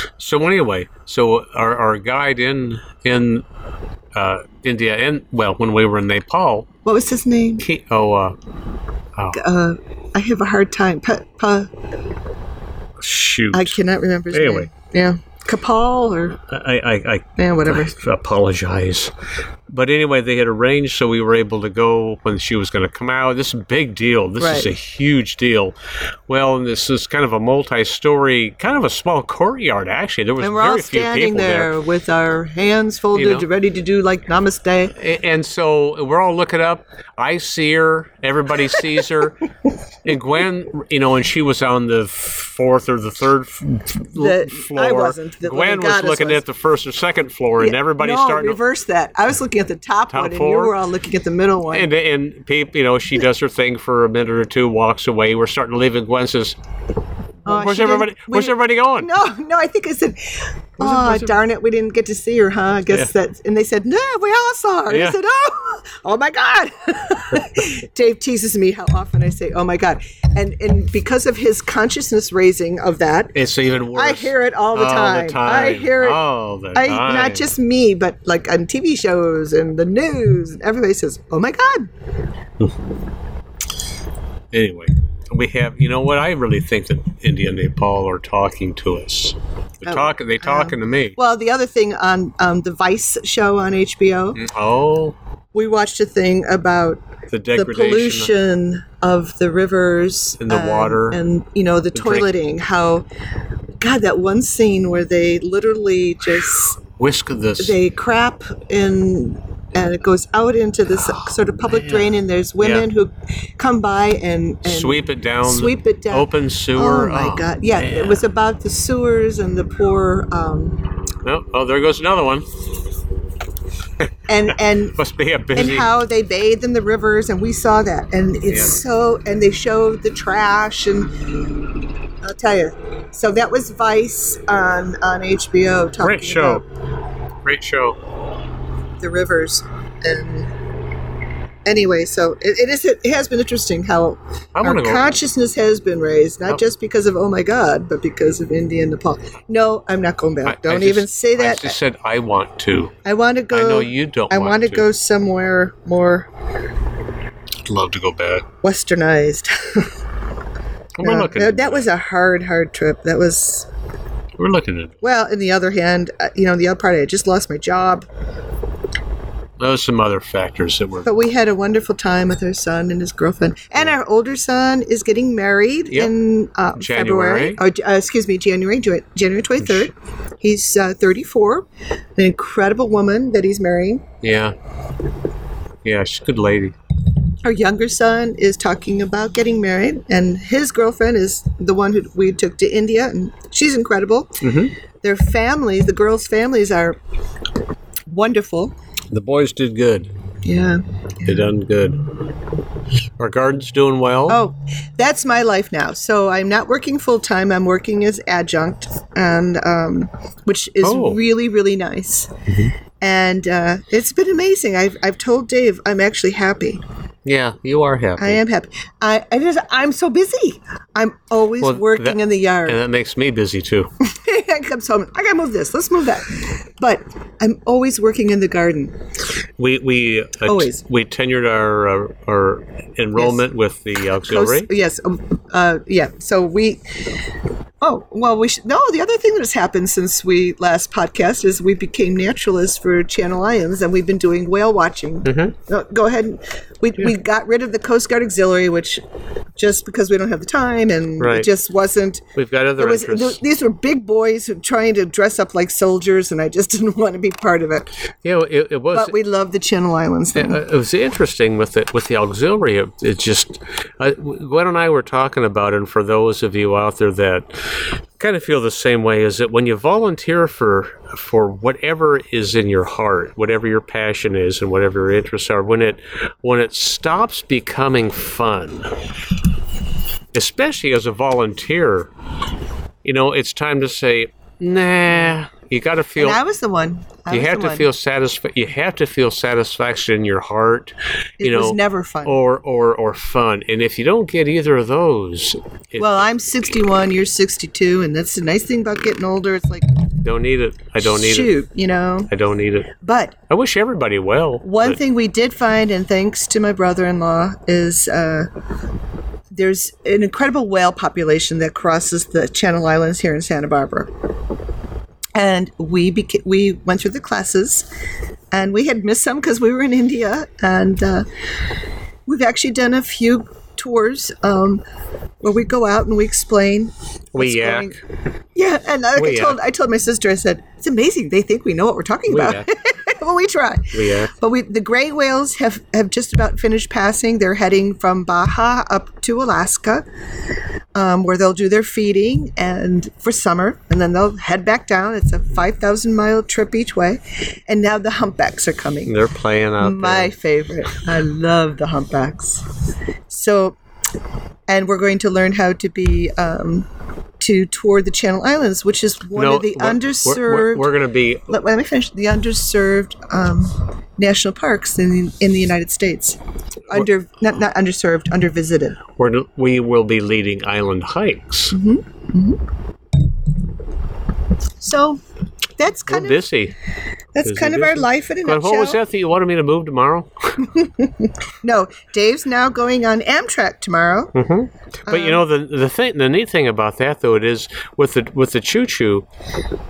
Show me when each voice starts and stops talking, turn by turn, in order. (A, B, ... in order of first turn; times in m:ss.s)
0:00.2-0:03.4 A
0:04.1-0:06.7 A
0:06.8-0:07.6 B
0:07.6-0:08.4 A
0:09.3-0:11.7 B
0:13.0-0:13.8 A
0:13.5-0:16.4 B
0:14.3-0:14.7 A
0:16.5-0:19.1 A
0:17.4-0:17.9 B
0:19.7-0:25.8 A
0:24.4-0:24.7 B
0:26.3-0:31.8 A
0:30.4-0:34.9 B
0:33.1-0:33.5 A
0:35.0-0:39.5 A
0:40.0-0:48.6 A
0:44.1-0:46.4 B
0:47.6-0:51.9 B
0:50.1-0:50.7 A
0:51.7-0:56.6 A
0:57.4-0:59.1 A
0:57.4-1:13.3 B
1:00.8-1:01.4 A
1:04.9-1:05.2 A
1:13.3-1:17.5 A
1:13.9-1:16.2 B
1:16.7-1:21.9 B
1:24.5-1:31.2 A
1:29.8-1:34.4 B
1:34.4-1:35.2 A
1:35.5-1:43.0 B
1:37.3-1:38.3 A
1:40.4-1:41.2 A
1:41.9-1:42.3 A
1:43.8-1:46.8 B
1:47.0-1:47.8 A
1:47.6-2:00.9 B
1:51.6-1:52.8 A
1:54.6-1:58.2 A
2:01.2-2:02.5 A
2:04.3-2:05.0 B
2:04.7-2:05.9 A
2:05.5-2:11.5 B
2:08.5-2:08.8 A
2:12.2-2:16.6 B
2:16.0-2:16.6 A
2:17.4-2:18.0 A
2:19.0-2:20.5 B
2:21.6-2:31.8 B
2:24.6-2:25.1 A
2:30.4-2:32.9 A
2:33.0-2:36.3 B
2:33.5-2:34.8 A
2:37.7-2:38.5 A
2:38.6-2:39.9 B
2:41.0-2:41.9 A
2:41.0-2:43.7 B
2:44.4-2:45.0 A
2:45.0-2:48.0 B
2:49.6-2:51.1 A
2:51.0-3:01.6 B
2:56.8-2:57.6 A
2:59.6-2:59.9 A
3:02.2-3:04.1 B
3:04.2-3:04.5 A
3:05.8-3:06.7 A
3:07.4-3:17.0 B
3:14.4-3:14.7 A
3:18.1-3:18.7 B
3:19.1-3:20.1 A
3:20.4-3:21.5 B
3:21.2-3:22.2 A
3:23.2-3:24.4 A
3:24.3-3:32.3 B
3:30.8-3:31.2 A
3:32.5-3:32.7 A
3:33.0-3:36.8 B
3:37.2-3:38.4 A
3:38.2-3:42.8 B
3:41.6-3:43.9 A
3:44.0-3:48.9 B
3:49.6-3:54.7 A
3:50.4-3:50.8 B
3:54.2-3:57.0 B
3:57.8-4:09.0 B
4:05.2-4:05.5 A
4:09.6-4:12.2 B
4:11.2-4:11.5 A
4:12.4-4:13.4 A
4:12.8-4:17.9 B
4:18.2-4:19.2 A
4:18.9-4:20.6 B
4:20.3-4:39.1 A
4:40.3-4:42.1 A
4:43.0-4:46.4 A
4:46.2-4:47.9 B
4:47.3-4:56.3 A
4:51.4-4:52.4 B
4:56.0-4:59.9 B
5:00.2-5:01.6 A
5:01.0-5:02.3 B
5:02.3-5:02.9 A
5:03.0-5:03.4 B
5:03.5-5:05.0 A
5:04.6-5:08.5 B
5:09.5-5:14.1 B
5:15.3-5:17.9 B
5:18.5-5:21.2 B
5:22.3-5:24.8 B
5:25.4-5:28.0 B
5:27.3-5:28.0 A
5:28.5-5:40.0 B
5:29.2-5:29.6 A
5:32.3-5:32.7 A
5:33.9-5:34.3 A
5:40.9-5:49.1 B
5:49.0-5:50.3 A
5:49.8-5:52.7 B
5:53.3-5:53.8 B
5:54.7-5:56.9 B
5:57.4-6:01.0 B
5:59.3-6:01.6 A
6:01.5-6:06.4 B
6:06.9-6:09.0 B
6:09.2-6:11.8 A
6:11.7-6:12.6 B
6:14.8-6:15.2 B
6:15.8-6:16.4 B
6:16.1-6:16.8 A
6:17.4-6:19.0 B
6:17.4-6:20.6 A
6:20.6-6:24.3 B
6:24.3-6:29.2 A
6:25.1-6:25.4 B